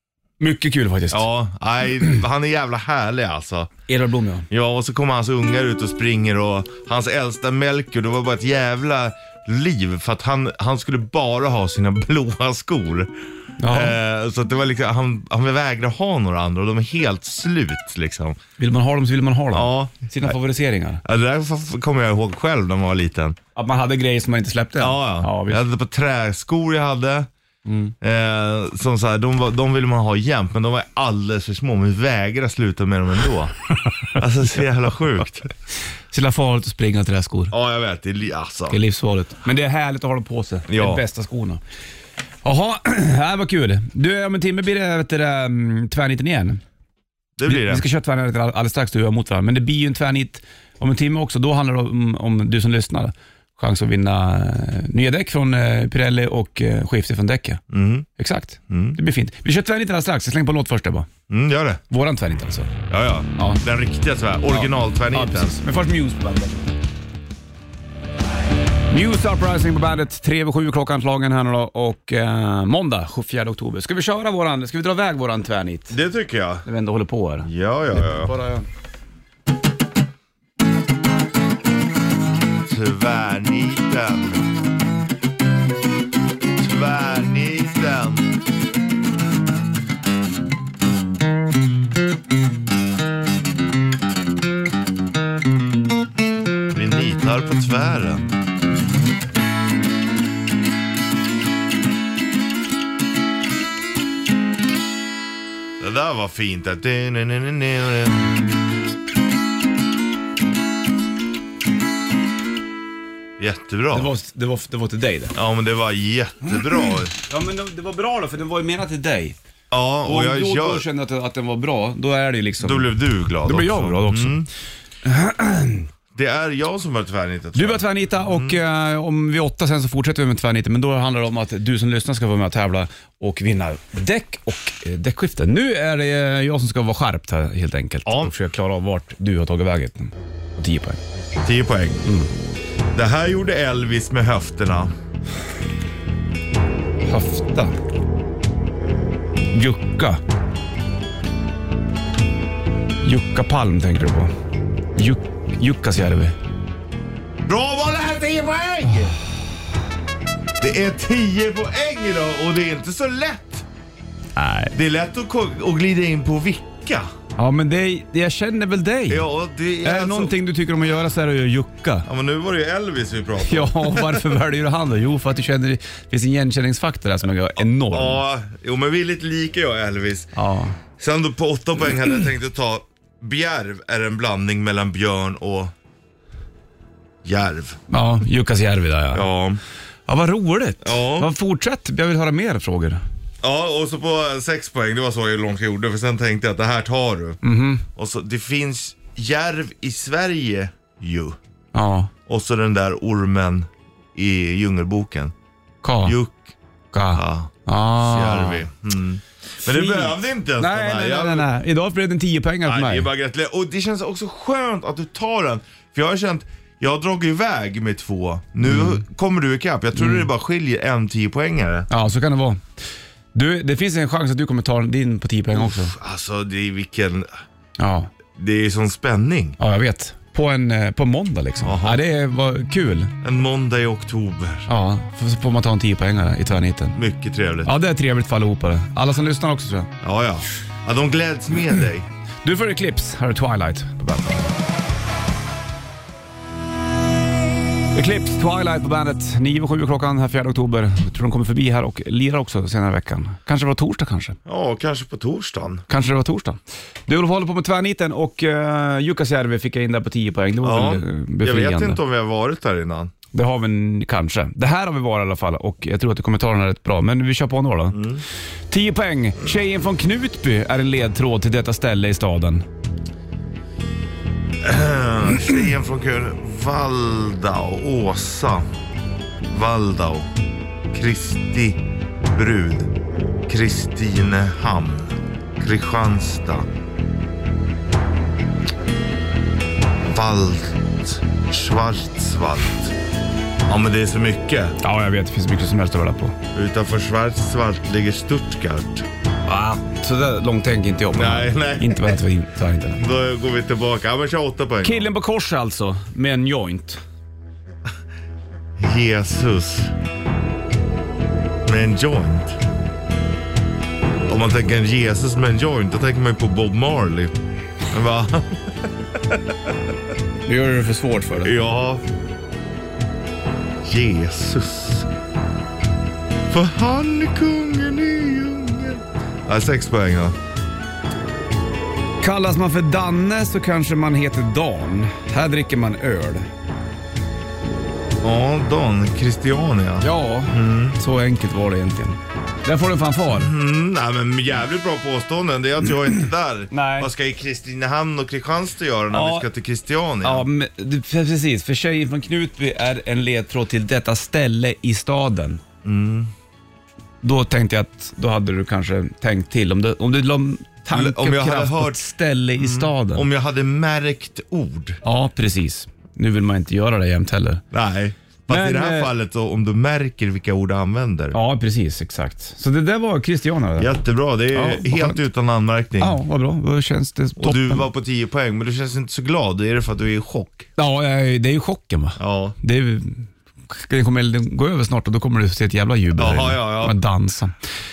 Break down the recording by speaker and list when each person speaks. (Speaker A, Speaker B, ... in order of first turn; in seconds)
Speaker A: 0.4-1.2, 3.9-4.5, 13.6-14.0, 18.6-21.0, 23.6-25.6, 27.6-27.9, 36.1-37.5, 38.7-41.6, 42.4-46.6, 47.5-57.6, 58.2-61.1, 61.9-62.7, 64.5-66.8, 68.9-76.0, 76.6-78.7, 113.9-115.3, 116.4-119.3, 120.0-122.9, 123.4-124.4, 125.0-125.9, 127.5-141.0, 142.0-142.3, 147.0-147.7, 149.5-150.2, 153.0-154.3, 154.9-156.3, 164.3-164.7, 167.4-169.3, 169.8-172.1, 173.4-178.2, 180.3-180.8, 187.9-189.2, 190.1-193.0, 197.4-197.8, 201.7-202.1, 205.8-206.2, 206.9-208.6, 209.6-213.1, 218.6-219.0, 219.9-220.3, 221.9-222.6, 223.3-225.9, 227.8-228.1, 229.6-233.1, 234.7-237.0, 237.6-239.9, 242.4-244.5, 247.9-254.4, 255.9-262.0, 263.3-268.0, 268.7-272.6, 294.8-296.4, 299.5-303.0, 304.8-307.0, 320.4-321.5, 332.2-336.5, 340.0-343.5, 346.7-347.1, 349.1-349.5, 350.2-355.6, 357.2-363.3, 365.0-367.6, 368.5-369.1, 371.3-373.9, 374.5-375.2, 376.0-377.9, 380.8-387.5
Speaker B: 1.1-3.7, 4.5-13.1, 13.7-18.4, 19.5-20.4, 21.0-23.4, 24.8-27.3, 28.0-33.5, 34.1-35.5, 37.5-38.8, 40.7-41.0, 47.4-47.8, 57.7-58.1, 58.7-59.0, 61.3-61.8, 62.9-65.5, 75.9-76.6, 77.4-78.3, 82.7-84.4, 86.6-88.3, 96.7-98.3, 105.8-108.2, 113.4-114.1, 115.3-117.1, 119.7-120.8, 122.6-124.5, 126.1-128.6, 138.1-138.3, 141.4-142.0, 142.9-144.9, 157.4-159.1, 160.6-163.6, 164.7-167.1, 169.1-170.3, 172.1-174.4, 177.6-180.3, 181.0-185.7, 187.2-187.8, 189.1-189.6, 190.8-191.3, 193.4-197.4, 197.9-201.4, 202.3-205.3, 206.0-206.5, 207.1-211.5, 212.7-221.9, 225.6-227.3, 228.3-229.6, 231.6-232.0, 233.2-234.7, 236.9-237.7, 240.0-242.1, 254.4-255.8, 260.6-263.1, 267.9-268.2, 274.6-278.6, 279.5-280.3, 280.9-281.8, 282.3-282.9, 283.5-286.7, 290.0-292.9, 293.7-294.8, 296.5-299.1, 301.1-302.2, 303.0-305.1, 308.8-309.9, 311.6-312.6, 314.2-317.3, 317.9-319.4, 321.4-322.0, 323.8-325.1, 326.5-330.4, 338.2-341.0, 343.4-350.4, 355.8-356.3, 360.9-362.0, 362.6-365.0, 367.7-371.4, 373.8-376.2, 377.4-380.7, 382.2-382.6, 386.1-386.9